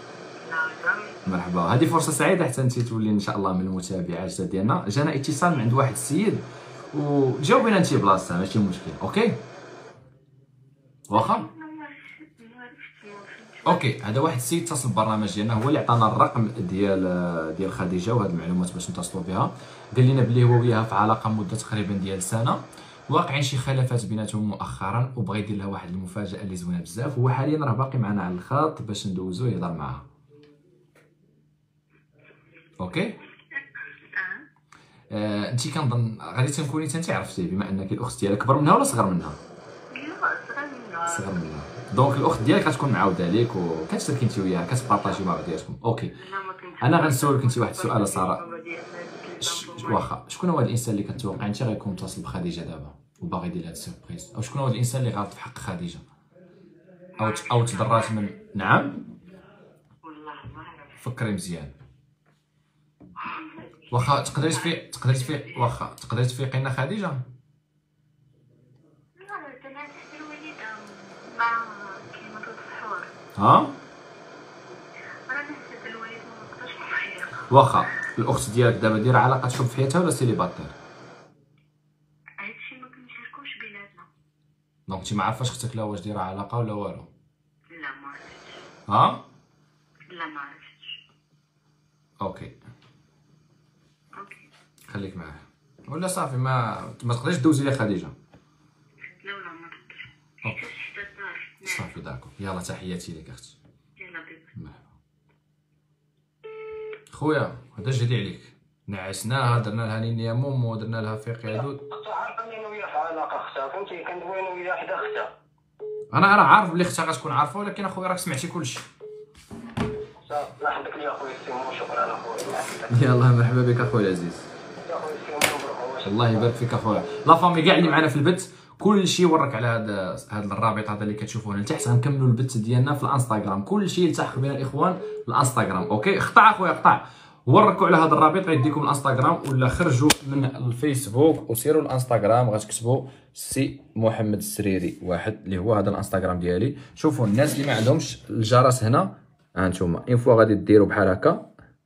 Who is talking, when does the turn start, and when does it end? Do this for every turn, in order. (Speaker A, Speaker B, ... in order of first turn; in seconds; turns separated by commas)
Speaker A: 0.4-1.3, Speaker B: 1.2-9.4, Speaker B: 11.1-11.5, Speaker A: 11.1-13.9, Speaker B: 13.6-30.0, Speaker B: 32.8-33.2, Speaker A: 33.5-34.5, Speaker B: 35.1-39.4, Speaker A: 39.9-41.4, Speaker B: 41.0-46.1, Speaker A: 44.8-45.2, Speaker A: 46.1-50.1, Speaker B: 46.8-48.4, Speaker B: 49.4-56.0, Speaker A: 57.1-58.3, Speaker B: 57.2-59.0, Speaker A: 60.0-61.0, Speaker B: 61.0-61.7, Speaker A: 63.1-65.7, Speaker B: 63.9-67.2, Speaker A: 69.2-73.1, Speaker B: 73.3-73.7, Speaker A: 75.3-77.5, Speaker B: 77.5-80.7, Speaker A: 82.4-84.1, Speaker B: 84.9-87.1, Speaker A: 87.7-88.6, Speaker B: 88.9-89.2, Speaker A: 90.0-91.0, Speaker B: 92.2-92.5, Speaker A: 94.1-94.5, Speaker B: 94.9-98.1, Speaker A: 99.2-101.9, Speaker B: 101.6-103.5, Speaker A: 104.0-104.5, Speaker B: 104.5-104.9, Speaker B: 107.1-111.8, Speaker C: 111.5-115.3, Speaker B: 116.1-118.8, Speaker C: 120.2-122.9, Speaker B: 122.9-124.5, Speaker C: 124.9-126.5, Speaker B: 126.0-151.5